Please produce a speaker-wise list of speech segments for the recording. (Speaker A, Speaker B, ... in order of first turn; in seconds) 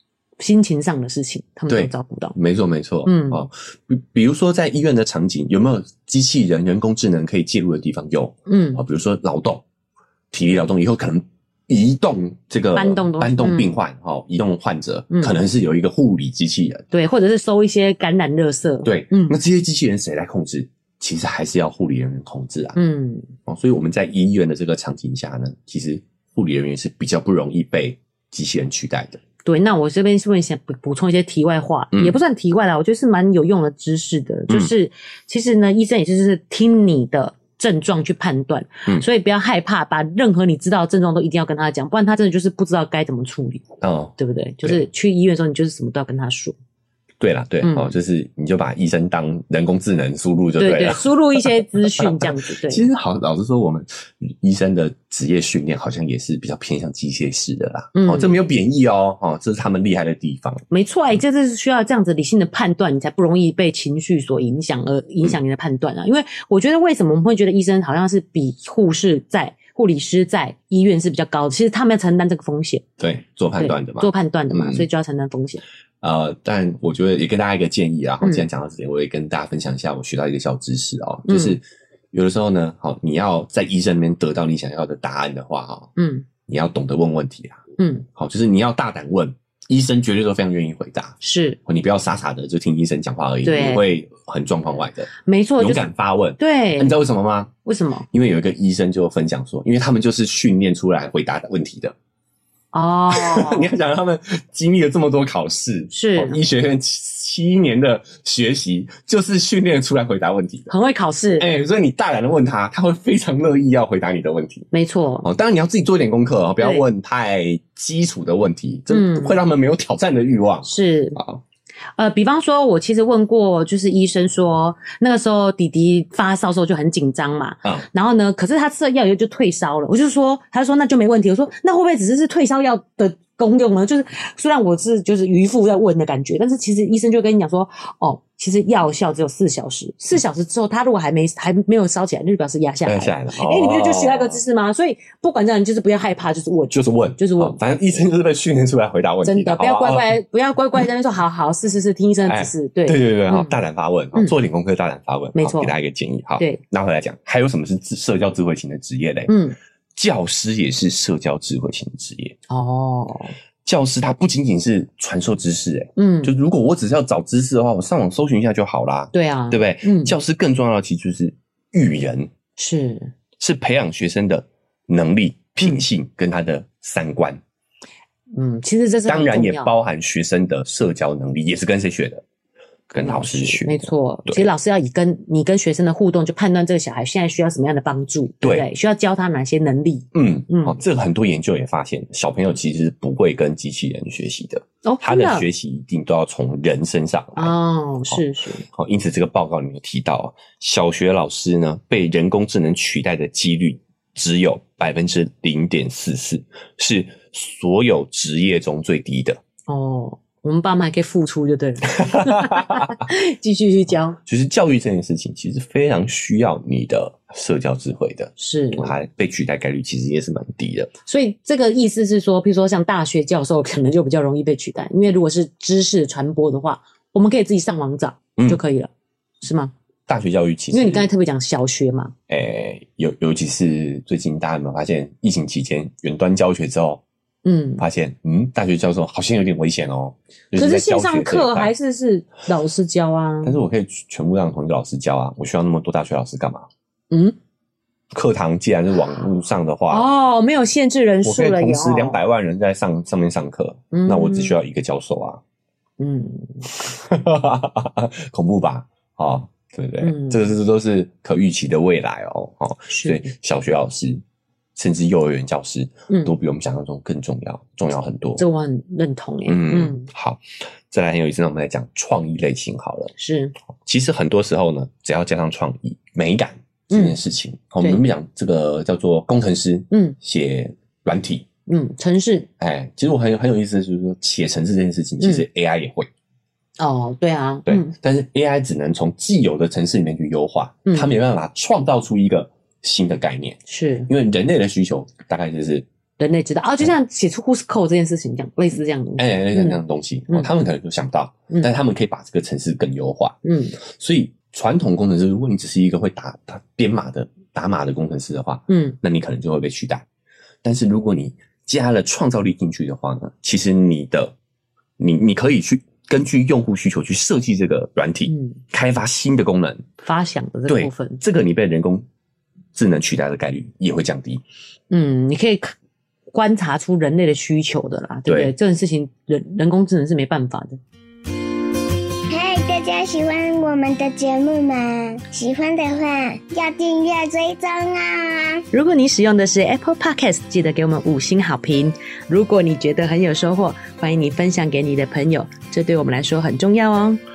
Speaker A: 0.4-2.4, 3.0-3.5, 8.5-8.8, 12.8-13.7, 16.9-19.4, 22.8-23.3, 29.4-43.7, 44.2-46.5, 47.6-47.9, 50.6-52.9, 58.0-58.3, 60.7-72.8, 73.6-75.6, 78.2-78.5, 81.3-81.6, 86.0-86.3, 87.8-88.1, 91.2-91.6, 93.4-93.9, 95.2-95.9, 96.4-97.0, 97.7-98.0, 102.7-103.7, 105.9-106.4, 110.7-111.5, 114.7-115.3, 118.9-119.4, 120.7-121.2, 122.0-147.6, 149.2-153.6, 155.3-155.7, 159.3-159.6, 162.5-163.3, 166.0-166.3, 169.1-170.2, 172.6-173.1, 178.3-179.7, 183.0-190.8, 194.8-195.5, 197.4-198.7, 209.7-214.2, 218.4-218.9, 221.1-228.9, 229.4-229.7, 230.7-232.1, 237.4-237.8, 240.6-243.6, 247.1-247.4, 249.9-252.2, 253.9-254.6, 256.0-256.7, 260.0-260.4, 262.9-263.3, 268.4-270.1, 273.2-273.6, 276.9-277.2, 279.9-280.2, 281.7-282.5, 285.2-285.4, 286.8-287.9, 290.9-291.1, 293.7-294.1, 296.2-300.5, 303.4-303.8, 308.7-309.0, 318.3-318.6, 320.0-321.2, 324.9-325.7, 326.3-330.8, 338.7-347.2
Speaker B: 1.7-9.7, 10.3-16.9, 18.8-22.8, 23.5-29.2, 43.8-44.8, 47.2-60.6, 73.0-74.9, 76.0-85.9, 86.5-87.6, 88.2-97.5, 98.1-102.0, 103.1-110.7, 111.4-114.7, 115.2-121.4, 142.9-144.4, 146.7-150.1, 152.3-159.3, 159.9-162.4, 163.7-172.3, 173.4-177.4, 179.1-182.2, 182.9-184.5, 190.1-197.6, 198.7-209.4, 212.0-212.9, 214.3-220.9, 230.1-231.1, 232.3-237.0, 237.8-241.7, 243.4-246.7, 248.1-250.1, 251.2-255.4, 256.7-264.2, 264.8-268.4, 269.5-273.1, 273.9-281.5, 282.6-286.1, 287.7-295.9, 299.2-310.1, 310.6-314.4, 315.0-319.8, 320.7-322.1, 322.7-324.4, 328.3-328.5
Speaker C: 332.3-338.6